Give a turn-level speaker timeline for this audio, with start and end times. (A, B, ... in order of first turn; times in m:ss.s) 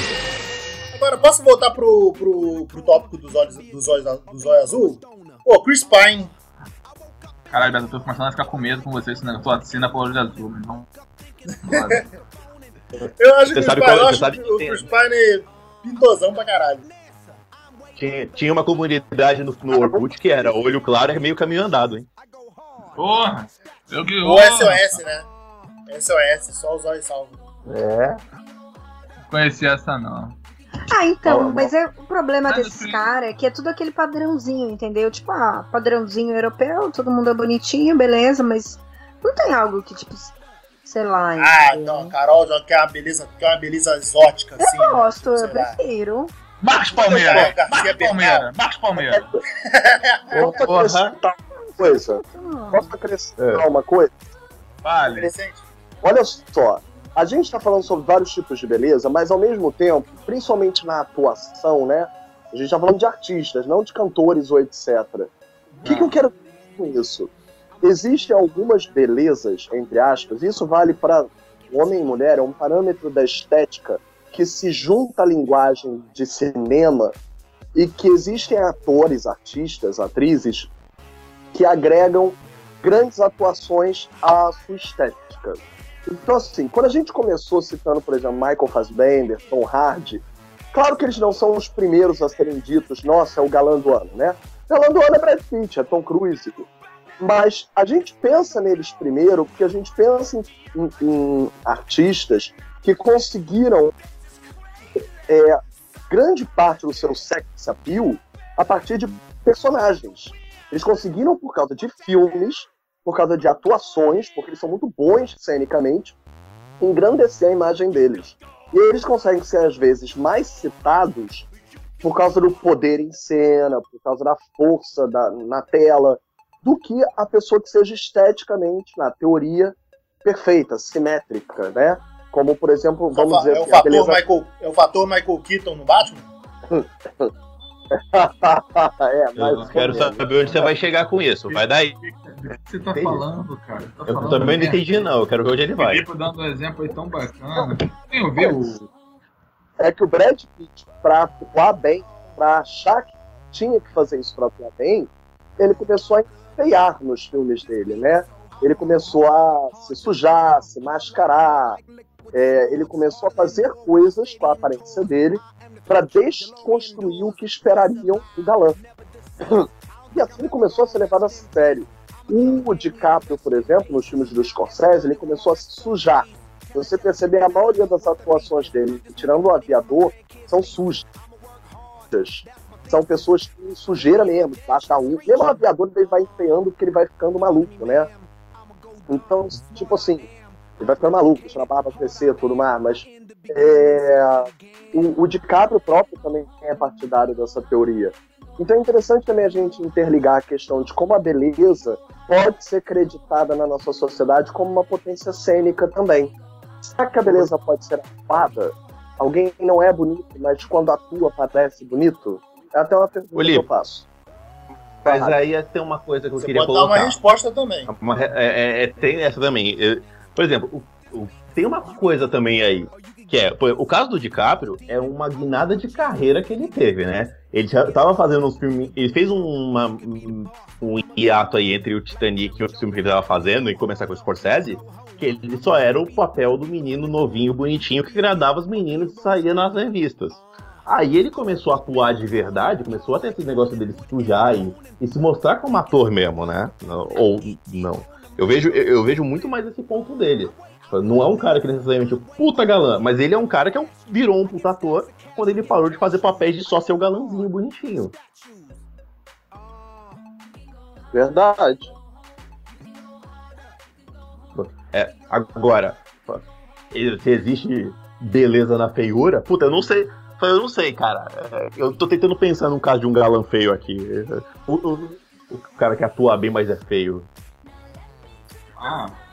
0:00.9-0:06.3 A
0:07.5-0:10.9 B
0:11.6-0:12.0 A
0:11.7-0:12.0 C
0:13.0-0:14.9 C
0:13.2-0:16.9 A
0:18.0-0:22.1 C
0:22.9-0:25.0 B
0:24.2-0:25.3 A
0:25.9-0:27.4 A
0:27.6-0:28.2 C
0:29.3-0:30.4 B
0:30.9-0:42.1 D
0:31.2-0:31.7 C
0:32.4-0:33.0 B
0:41.4-0:45.8 A
0:44.6-0:46.3 D
0:46.6-0:49.3 B
0:46.7-0:48.5 A
0:49.6-0:50.6 A
0:50.3-0:51.1 C
0:50.3-0:54.2 E
0:51.8-0:52.9 D
0:53.4-0:53.6 C
0:54.8-0:55.3 B
0:55.2-0:55.6 A
0:56.0-1:05.3 E
1:05.8-1:17.2 E
1:17.7-1:20.7 E
1:21.5-1:36.7 E
1:37.2-1:43.9 E
1:45.3-1:56.2 E
1:56.8-2:01.5 E
2:02.0-2:14.2 E
2:13.1-2:16.3 A
2:16.7-2:17.3 E
2:17.9-2:20.7 E
2:19.4-2:21.9 C
2:19.5-2:19.7 B
2:21.5-2:25.0 B
2:22.9-2:23.2 C
2:24.1-2:26.0 C
2:25.8-2:28.8 B
2:28.4-2:28.8 E
2:29.8-2:41.8 E
2:42.3-2:48.8 E
2:49.4-3:01.1 E
3:02.1-3:08.1 E
3:09.1-3:26.3 E
3:26.8-3:34.0 E
3:33.3-3:33.6 C
3:35.0-3:35.4 E
3:35.0-3:37.2 C
3:36.4-3:37.9 A
3:37.9-4:18.1 C
4:21.1-4:21.9 E
4:24.5-4:37.3 C
4:38.8-4:39.2 B